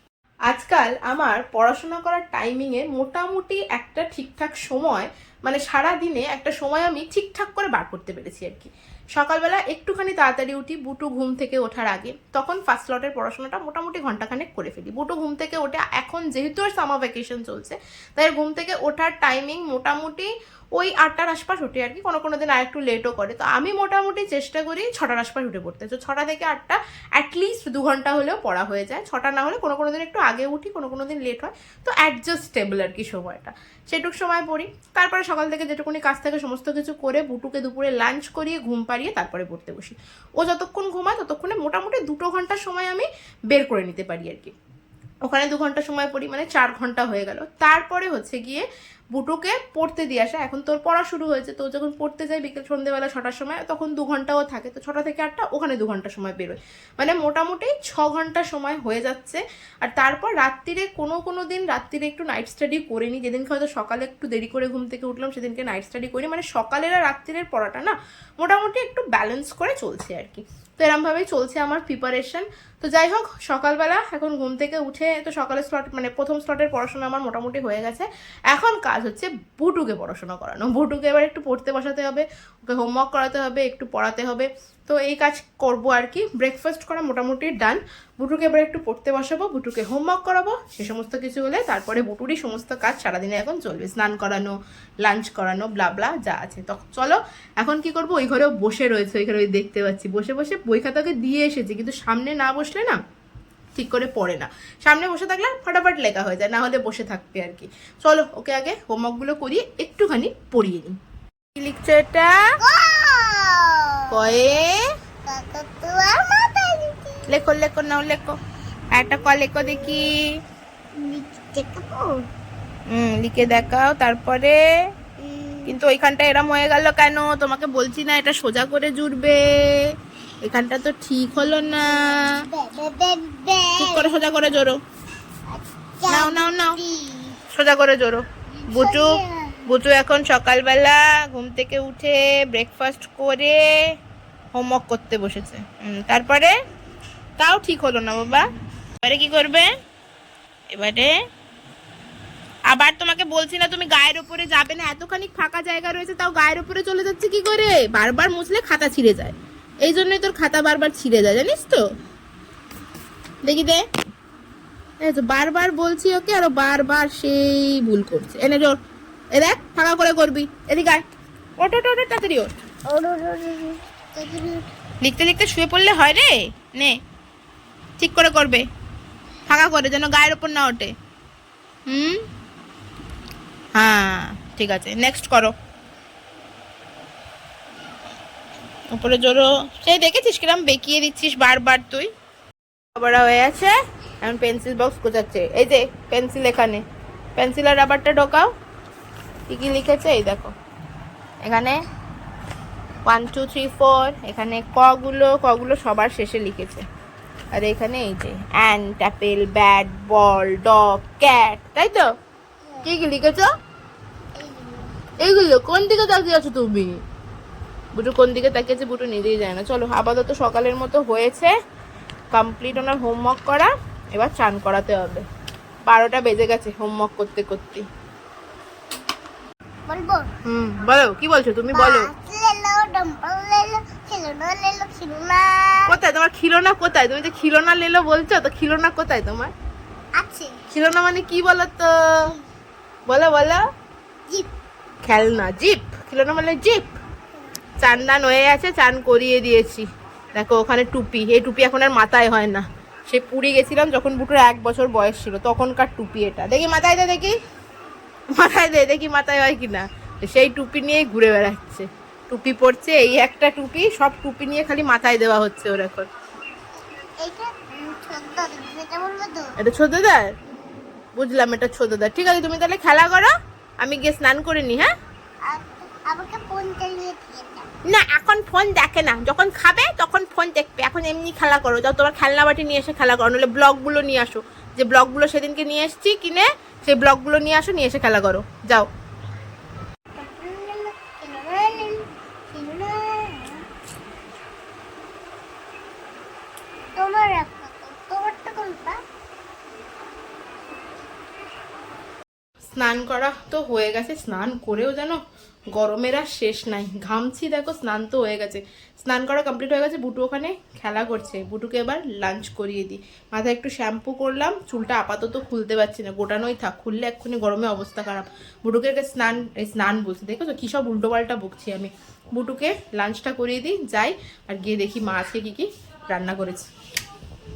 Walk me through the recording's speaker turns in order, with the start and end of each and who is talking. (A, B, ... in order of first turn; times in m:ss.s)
0:00.5-0:44.6 A
0:45.2-1:43.0 A
1:43.8-1:51.0 A
1:51.6-1:52.6 A
1:52.6-1:54.4 B
1:54.1-1:54.8 A
1:55.2-1:57.3 B
1:57.3-1:58.4 A
1:58.9-2:00.2 A
1:59.6-2:00.1 B
2:01.0-2:02.3 B
2:02.9-2:04.6 A
2:05.2-2:05.7 B
2:05.7-2:09.9 A
2:10.4-2:12.5 A
2:12.1-2:14.5 B
2:13.8-2:14.8 A
2:15.5-2:17.4 B
2:16.1-2:16.8 A
2:17.5-2:23.7 A
2:18.6-2:19.7 B
2:24.5-2:26.5 A
2:27.4-2:28.5 A
2:29.0-2:29.7 A
2:30.7-2:31.2 A
2:32.7-2:41.8 A
2:43.4-2:43.9 A
2:45.0-2:48.8 A
2:49.3-2:51.0 A
2:51.6-2:52.6 A
2:52.9-2:54.7 B
2:55.0-2:57.0 A
2:58.0-2:58.6 A
2:59.5-3:00.9 A
3:01.9-3:02.2 A
3:03.8-3:05.5 A
3:08.9-3:12.1 A
3:13.0-3:16.8 A
3:17.4-3:18.5 A
3:19.5-3:20.5 A
3:21.4-3:21.8 A
3:23.1-3:26.9 A
3:27.5-3:32.1 A
3:32.8-3:33.5 A
3:34.4-3:35.0 B
3:35.2-3:37.0 A
3:38.0-3:41.5 A
3:42.3-3:45.3 A
3:45.9-3:47.9 A
3:49.9-3:50.3 B
3:50.4-3:52.1 A
3:51.7-3:55.9 B
3:55.9-3:59.5 A
4:00.2-4:00.6 B
4:00.7-4:02.4 A
4:03.1-4:03.6 A
4:05.0-4:07.0 A
4:07.8-4:17.4 A
4:18.3-4:26.1 A
4:27.2-4:29.5 B
4:29.6-4:30.3 A
4:31.2-4:34.9 A
4:35.5-4:37.7 B
4:37.9-4:48.9 A
4:50.2-4:53.6 B
4:56.9-4:59.0 B
5:02.8-5:05.2 A
5:05.7-5:26.7 A